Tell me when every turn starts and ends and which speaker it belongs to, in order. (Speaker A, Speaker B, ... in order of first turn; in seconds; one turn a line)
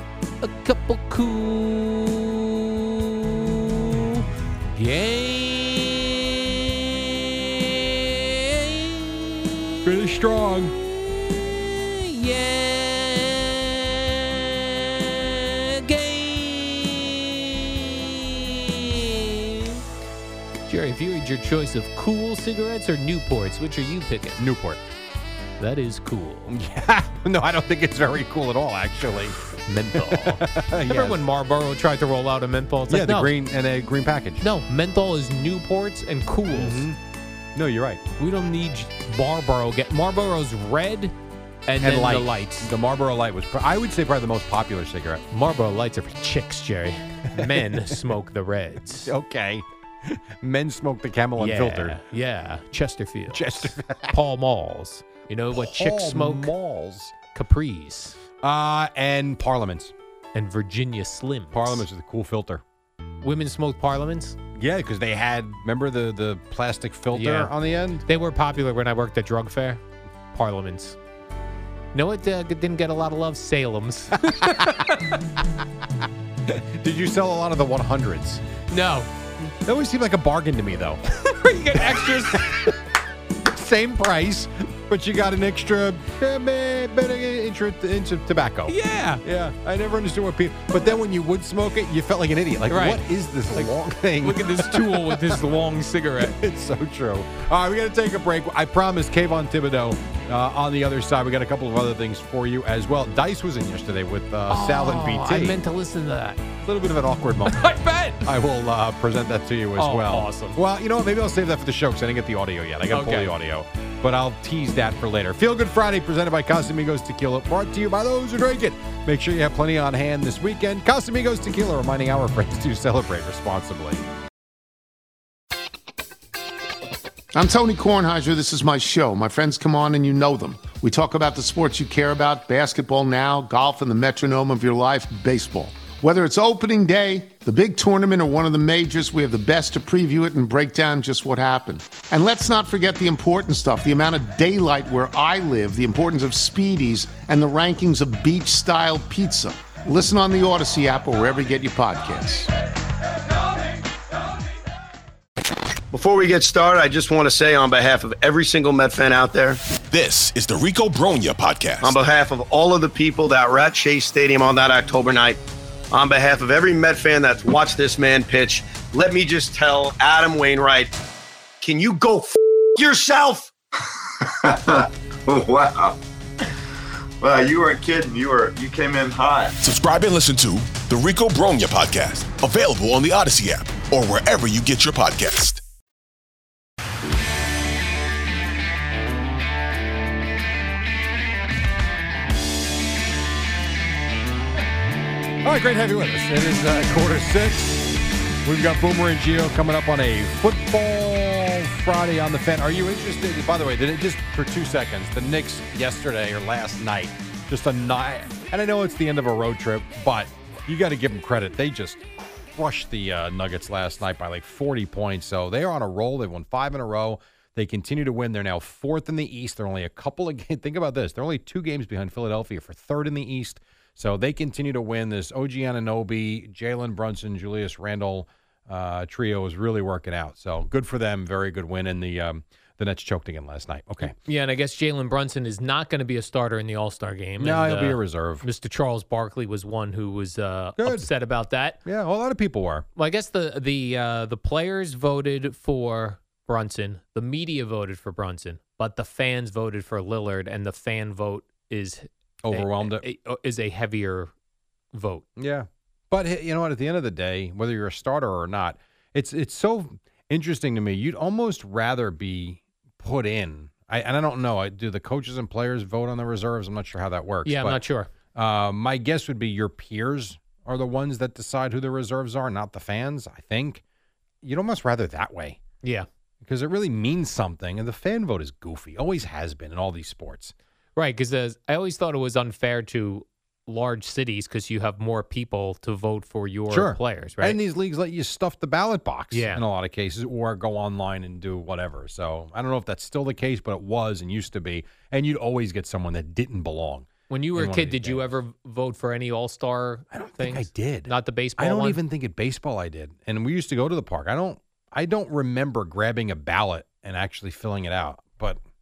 Speaker A: 0.4-9.7
Speaker B: 9.8-10.7
Speaker A: 11.1-19.8
Speaker A: 20.7-24.4
Speaker B: 24.4-24.8
Speaker A: 25.6-26.5
Speaker B: 26.5-29.4
Speaker A: 29.7-33.3
Speaker B: 29.9-31.2
Speaker B: 32.9-34.4
Speaker A: 34.4-36.9
Speaker B: 36.5-37.0
Speaker B: 37.5-38.0
Speaker A: 38.2-41.1
Speaker A: 41.7-42.7
Speaker B: 41.8-45.2
Speaker A: 45.3-49.1
Speaker B: 47.3-48.0
Speaker B: 49.0-52.0
Speaker A: 51.4-56.5
Speaker B: 53.3-54.1
Speaker B: 55.5-57.1
Speaker A: 57.3-58.2
Speaker B: 58.4-59.9
Speaker A: 60.3-61.8
Speaker B: 61.5-62.6
Speaker A: 63.2-64.4
Speaker B: 64.5-68.0
Speaker A: 67.1-67.5
Speaker A: 68.0-69.8
Speaker A: 70.3-71.0
Speaker A: 71.9-75.2
Speaker B: 74.3-74.7
Speaker B: 76.5-78.4
Speaker A: 78.7-79.1
Speaker B: 79.6-81.0
Speaker A: 81.2-82.6
Speaker B: 81.7-82.8
Speaker B: 83.4-95.5
Speaker A: 88.7-89.2
Speaker A: 92.7-93.0
Speaker A: 94.2-96.3
Speaker B: 96.2-105.6
Speaker A: 104.5-106.4
Speaker B: 106.6-107.7
Speaker A: 107.5-108.2
Speaker B: 108.2-124.0
Speaker A: 109.8-110.6
Speaker A: 112.9-113.3
Speaker C: 127.3-152.5
Speaker D: 155.9-159.6
Speaker E: 159.9-162.0
Speaker D: 161.8-165.4
Speaker D: 165.9-170.9
Speaker D: 171.6-173.5
Speaker F: 174.4-176.0
Speaker F: 177.2-179.5
Speaker E: 179.6-185.6
Speaker B: 195.4-234.1
Speaker A: 234.0-241.8
Speaker B: 237.4-238.4
Speaker B: 240.8-241.1
Speaker B: 241.8-242.8
Speaker A: 242.9-254.3
Speaker B: 252.4-253.1
Speaker A: 254.9-255.2
Speaker B: 255.4-267.8
Speaker A: 267.4-268.1
Speaker B: 268.3-273.8
Speaker B: 274.4-275.6
Speaker B: 276.4-280.5
Speaker A: 280.9-287.6
Speaker B: 286.7-298.3
Speaker A: 289.3-289.6
Speaker A: 297.3-302.0
Speaker B: 300.1-308.6